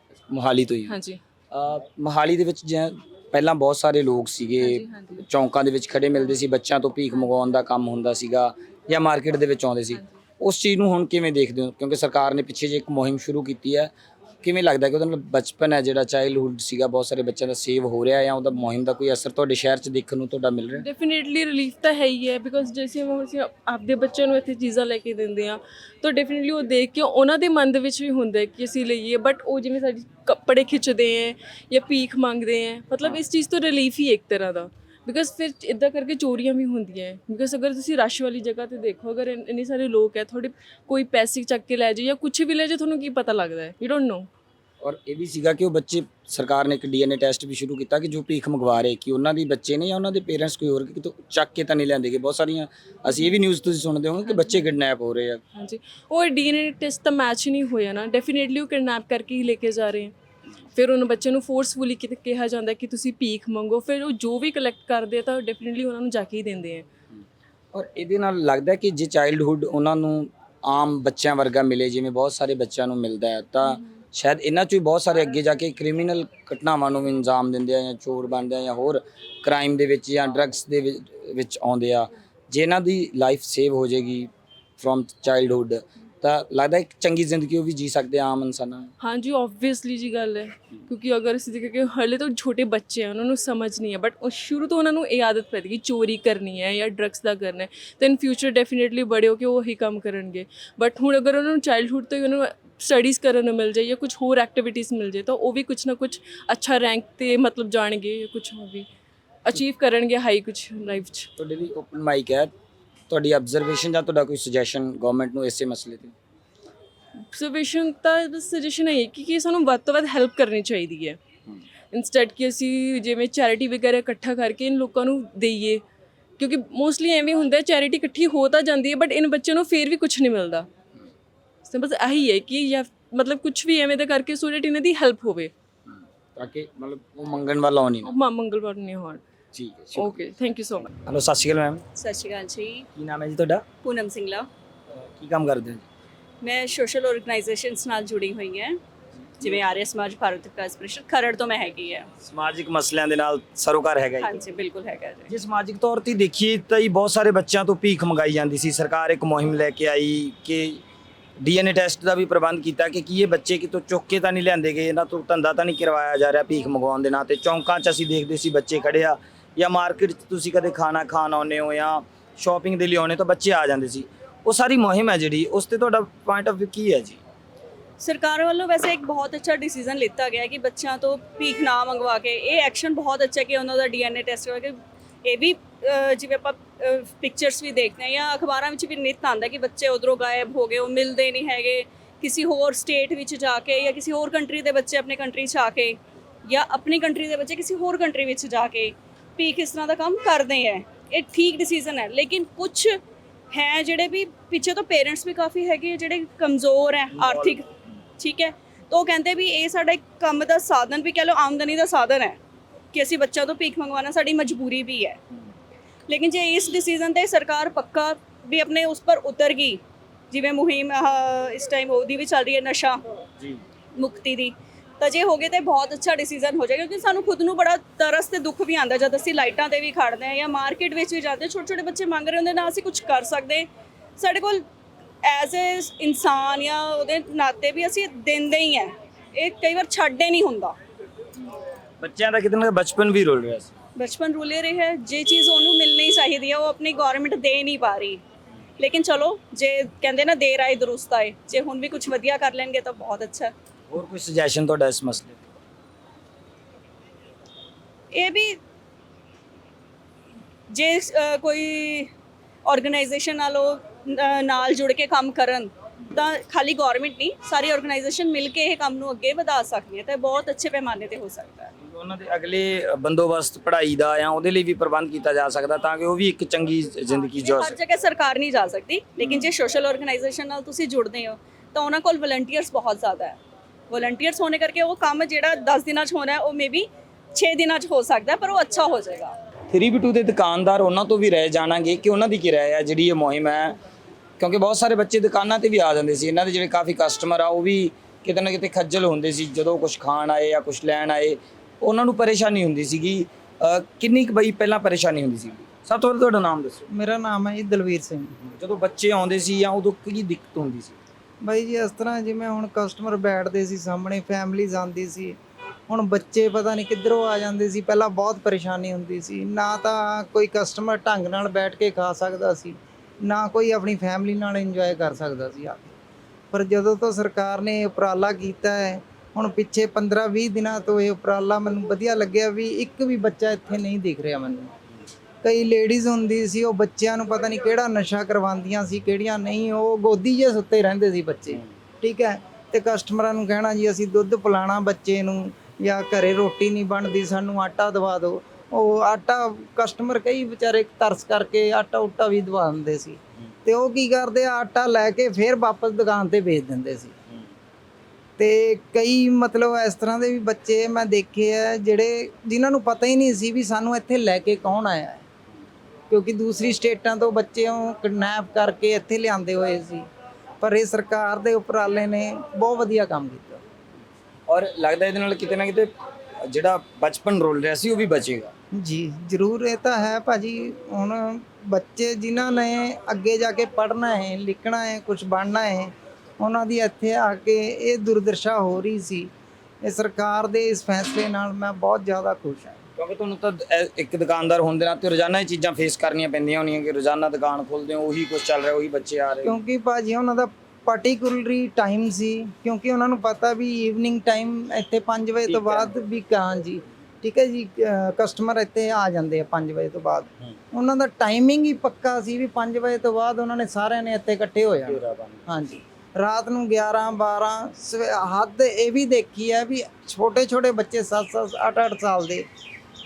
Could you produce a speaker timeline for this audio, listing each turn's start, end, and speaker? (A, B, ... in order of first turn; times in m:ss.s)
0:00.3-0:01.0 A
0:00.9-0:01.2 B
0:01.5-0:13.9 A
0:04.6-0:05.2 B
0:09.9-0:10.2 B
0:14.4-0:20.9 A
0:20.8-0:44.3 B
0:44.8-0:55.4 A
0:54.3-0:54.6 B
0:55.6-1:00.1 B
1:00.8-1:06.9 B
1:07.7-1:28.9 A
1:29.0-1:48.9 B
1:49.4-1:51.3 B
1:51.4-1:52.5 A
1:53.1-1:56.1 A
1:57.2-2:01.2 B
2:01.9-2:05.8 B
2:06.4-2:10.7 B
2:11.6-2:15.5 B
2:15.9-2:18.1 A
2:18.0-2:19.2 B
2:19.5-2:20.2 A
2:20.0-2:20.9 B
2:20.9-2:21.8 A
2:22.0-2:22.9 C
2:23.0-2:23.6 A
2:23.8-2:24.5 C
2:25.2-2:25.8 A
2:26.4-2:28.8 C
2:29.4-2:32.1 C
2:32.2-2:34.4 A
2:34.2-2:35.3 C
2:35.3-2:40.8 A
2:41.4-2:57.2 A
2:58.0-3:23.0 C
3:23.5-3:27.7 C
3:27.2-3:27.6 A
3:28.2-3:32.4 C
3:32.9-3:35.2 C
3:36.1-3:39.8 C
3:40.3-3:43.0 C
3:44.0-3:53.7 C
3:54.2-3:54.6 C
3:55.2-4:00.8 C
4:02.0-4:03.7 A
4:04.0-4:08.2 C
4:08.8-4:13.5 C
4:13.9-4:15.4 A
4:18.1-4:18.6 C
4:20.7-4:22.1 C
4:22.6-4:31.7 C
4:31.8-4:37.8 A
4:37.1-4:43.4 C
4:39.2-4:39.5 A
4:43.9-4:49.4 C
4:49.7-4:53.8 A
4:54.4-5:06.8 A
5:06.9-5:08.4 D
5:08.4-5:11.0 A
5:11.4-5:26.0 D
5:26.5-5:34.7 D
5:35.4-5:57.2 D
5:58.4-6:05.2 D
6:06.1-6:10.1 D
6:10.6-6:13.6 D
6:14.5-6:15.9 A
6:16.4-6:18.5 A
6:18.7-6:29.3 D
6:29.8-6:32.8 D
6:33.0-6:39.6 A
6:39.4-7:02.5 D
6:45.5-6:45.9 A
6:54.8-6:55.4 A